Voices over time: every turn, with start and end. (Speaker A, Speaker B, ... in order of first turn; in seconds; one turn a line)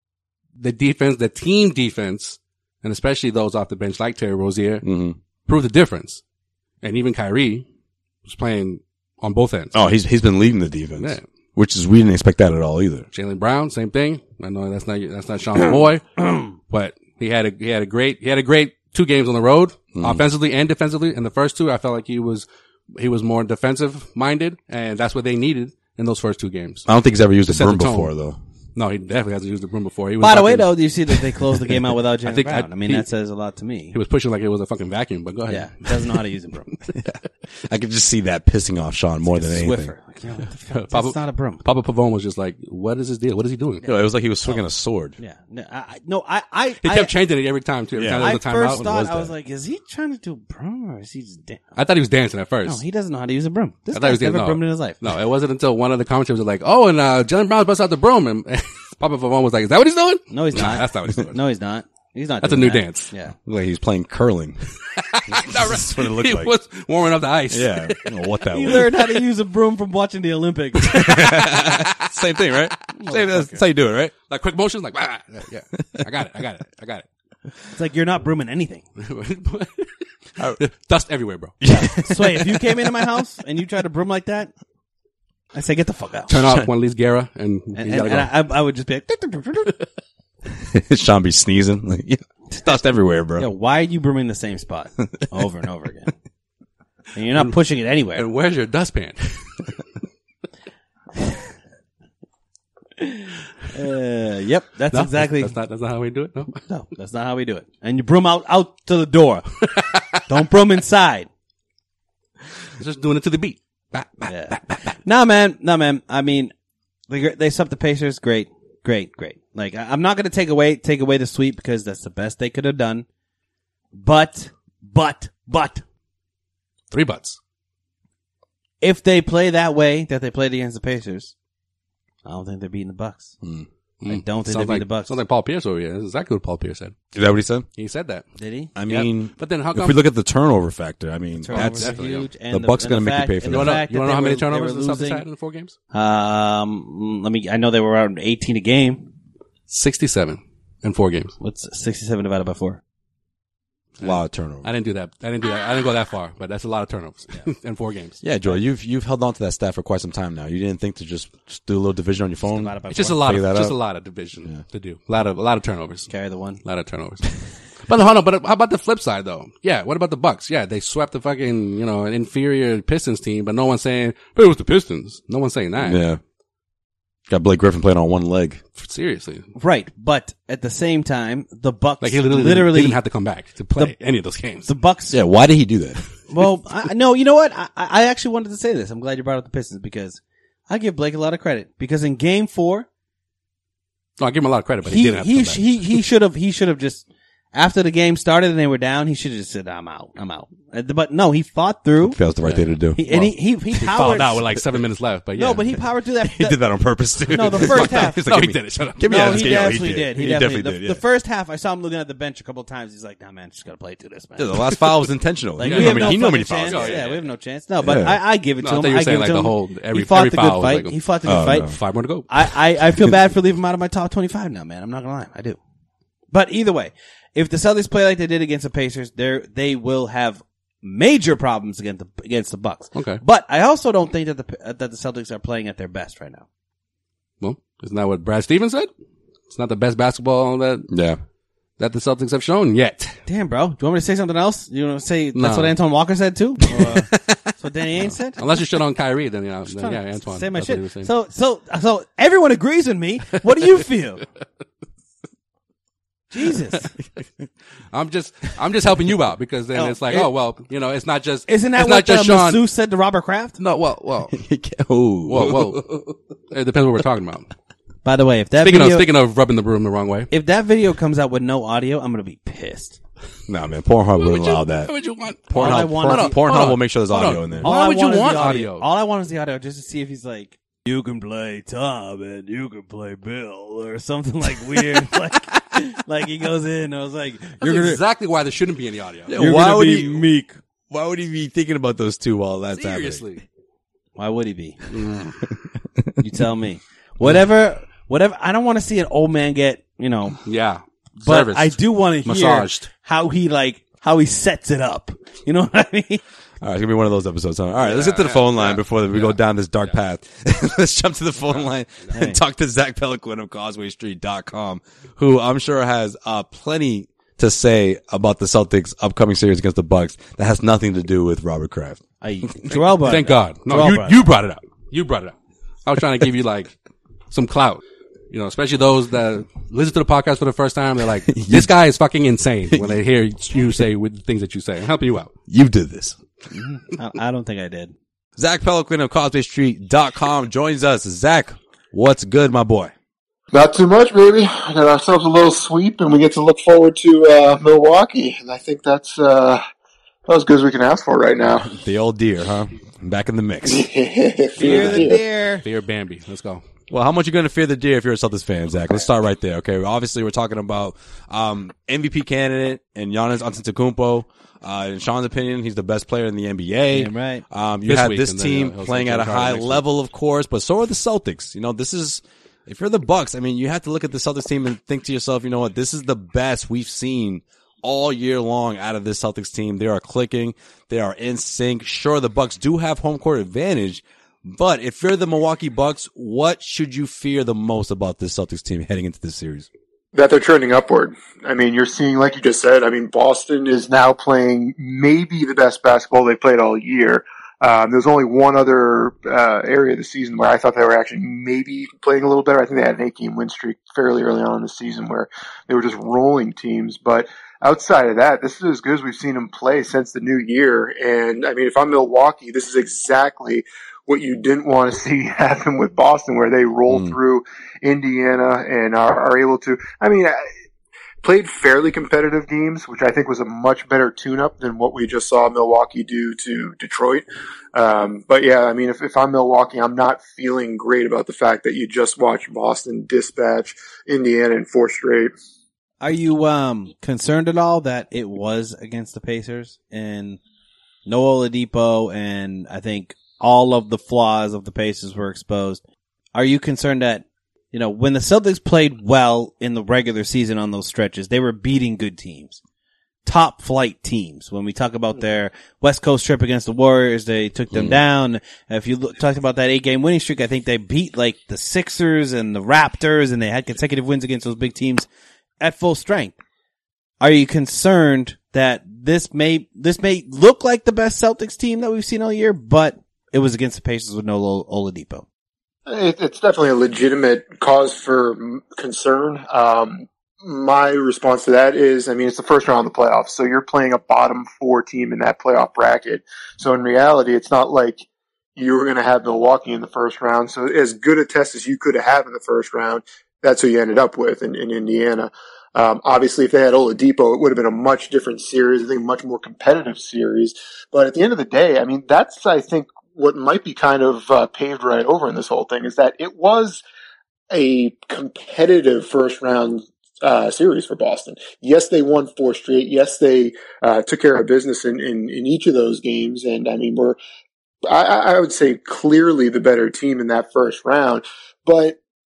Speaker A: 0.6-4.8
Speaker B: 4.8-5.2
Speaker A: 5.5-6.2
Speaker A: 6.8-7.6
Speaker A: 8.2-9.7
Speaker B: 9.7-13.1
Speaker A: 11.0-11.2
Speaker A: 13.1-26.9
Speaker B: 19.9-20.2
Speaker B: 26.9-28.4
Speaker A: 27.4-28.1
Speaker A: 28.8-31.3
Speaker C: 30.2-34.0
Speaker A: 32.2-33.0
Speaker A: 33.9-36.2
Speaker C: 35.5-36.8
Speaker B: 37.0-39.9
Speaker C: 39.2-41.6
Speaker A: 40.7-43.8
Speaker C: 43.8-44.6
Speaker B: 43.8-45.2
Speaker C: 45.2-47.1
Speaker A: 46.8-48.9
Speaker B: 48.0-49.3
Speaker C: 48.2-51.6
Speaker A: 51.8-52.8
Speaker C: 52.6-55.0
Speaker A: 53.9-61.4
Speaker C: 60.3-63.3
Speaker A: 62.4-63.1
Speaker B: 63.4-64.6
Speaker A: 65.0-68.1
Speaker B: 65.3-66.5
Speaker B: 67.5-68.9
Speaker C: 68.5-71.1
Speaker B: 70.8-74.1
Speaker A: 70.9-71.9
Speaker C: 72.9-73.6
Speaker A: 74.3-77.0
Speaker C: 77.7-78.8
Speaker A: 79.0-79.9
Speaker A: 80.6-81.6
Speaker B: 81.6-82.4
Speaker C: 81.7-84.5
Speaker C: 85.5-86.3
Speaker A: 86.3-88.3
Speaker B: 86.4-86.7
Speaker C: 87.8-89.8
Speaker B: 90.6-93.5
Speaker C: 93.4-96.1
Speaker C: 97.1-98.2
Speaker A: 98.1-99.4
Speaker C: 103.0-105.5
Speaker A: 104.9-106.6
Speaker C: 106.7-109.5
Speaker A: 109.6-110.2
Speaker C: 110.2-111.3
Speaker A: 112.7-114.5
Speaker C: 114.2-116.5
Speaker C: 117.1-123.0
Speaker C: 123.9-125.8
Speaker A: 126.9-127.4
Speaker C: 128.8-131.3
Speaker C: 132.2-133.3
Speaker B: 133.4-133.7
Speaker A: 134.0-136.9
Speaker C: 134.1-135.2
Speaker B: 137.1-137.7
Speaker A: 137.8-138.2
Speaker C: 138.4-138.7
Speaker B: 138.8-142.0
Speaker A: 138.9-140.0
Speaker C: 141.4-145.2
Speaker A: 141.5-142.3
Speaker B: 142.5-143.8
Speaker A: 143.5-145.8
Speaker C: 145.9-149.1
Speaker A: 149.7-151.3
Speaker C: 151.4-152.8
Speaker B: 154.0-154.7
Speaker A: 154.0-158.2
Speaker B: 158.2-163.8
Speaker C: 162.5-163.2
Speaker A: 162.9-166.1
Speaker C: 166.1-166.6
Speaker A: 166.6-176.0
Speaker B: 175.8-176.2
Speaker B: 177.3-178.6
Speaker A: 178.8-179.5
Speaker C: 179.6-183.0
Speaker A: 182.0-184.7
Speaker C: 184.6-185.2
Speaker B: 185.1-186.0
Speaker C: 186.3-192.8
Speaker A: 194.2-195.8
Speaker C: 194.8-202.2
Speaker B: 202.0-203.3
Speaker A: 202.4-205.8
Speaker C: 202.9-204.4
Speaker C: 205.3-206.6
Speaker B: 206.3-211.0
Speaker C: 207.3-208.2
Speaker A: 207.3-209.9
Speaker C: 209.1-214.8
Speaker B: 214.4-217.0
Speaker C: 215.6-221.7
Speaker A: 215.6-217.3
Speaker B: 217.8-218.2
Speaker A: 218.6-222.3
Speaker B: 221.2-221.8
Speaker C: 222.3-225.6
Speaker C: 226.3-236.4
Speaker A: 232.9-233.2
Speaker A: 237.4-238.9
Speaker A: 239.5-240.9
Speaker B: 240.9-241.2
Speaker A: 241.8-243.2
Speaker C: 243.2-248.5
Speaker A: 245.3-245.7
Speaker B: 246.8-247.3
Speaker A: 248.4-251.1
Speaker C: 249.7-254.2
Speaker C: 256.3-256.9
Speaker A: 257.9-262.6
Speaker C: 259.7-260.3
Speaker C: 261.5-263.6
Speaker A: 263.6-264.3
Speaker B: 264.3-265.9
Speaker A: 265.3-266.0
Speaker A: 266.5-267.5
Speaker C: 268.0-269.1
Speaker A: 268.6-270.3
Speaker C: 270.3-273.0
Speaker B: 273.5-274.9
Speaker A: 274.2-278.9
Speaker B: 275.5-277.7
Speaker C: 275.5-276.4
Speaker C: 277.6-288.0
Speaker A: 287.6-289.4
Speaker B: 289.3-290.3
Speaker C: 289.3-290.6
Speaker B: 290.9-293.2
Speaker A: 292.7-293.4
Speaker C: 294.1-294.8
Speaker A: 294.9-295.3
Speaker C: 296.2-300.4
Speaker A: 300.4-302.9
Speaker C: 301.2-306.2
Speaker B: 306.6-322.0
Speaker A: 307.8-309.9
Speaker A: 311.5-312.1
Speaker C: 312.1-312.4
Speaker C: 322.2-324.2
Speaker A: 323.0-326.7
Speaker A: 327.3-335.3
Speaker B: 331.3-331.7
Speaker B: 332.7-333.0
Speaker B: 335.5-336.2
Speaker C: 336.5-337.9
Speaker B: 338.4-342.9
Speaker D: 343.5-349.6
Speaker D: 350.3-351.7
Speaker B: 351.6-353.9
Speaker D: 353.6-355.2
Speaker C: 354.6-355.6
Speaker B: 354.6-355.1
Speaker A: 354.6-355.1
Speaker A: 355.6-356.6
Speaker B: 356.9-389.7
Speaker C: 366.9-367.4
Speaker A: 367.9-369.8
Speaker D: 390.1-420.4
Speaker B: 416.9-417.1
Speaker D: 421.2-435.3
Speaker C: 436.0-440.4
Speaker C: 441.1-445.8
Speaker C: 446.3-452.6
Speaker C: 453.2-465.1
Speaker B: 457.7-458.0
Speaker C: 465.6-466.4
Speaker C: 467.2-475.2
Speaker D: 475.9-488.0
Speaker D: 488.6-506.8
Speaker D: 507.5-517.2
Speaker D: 517.9-522.0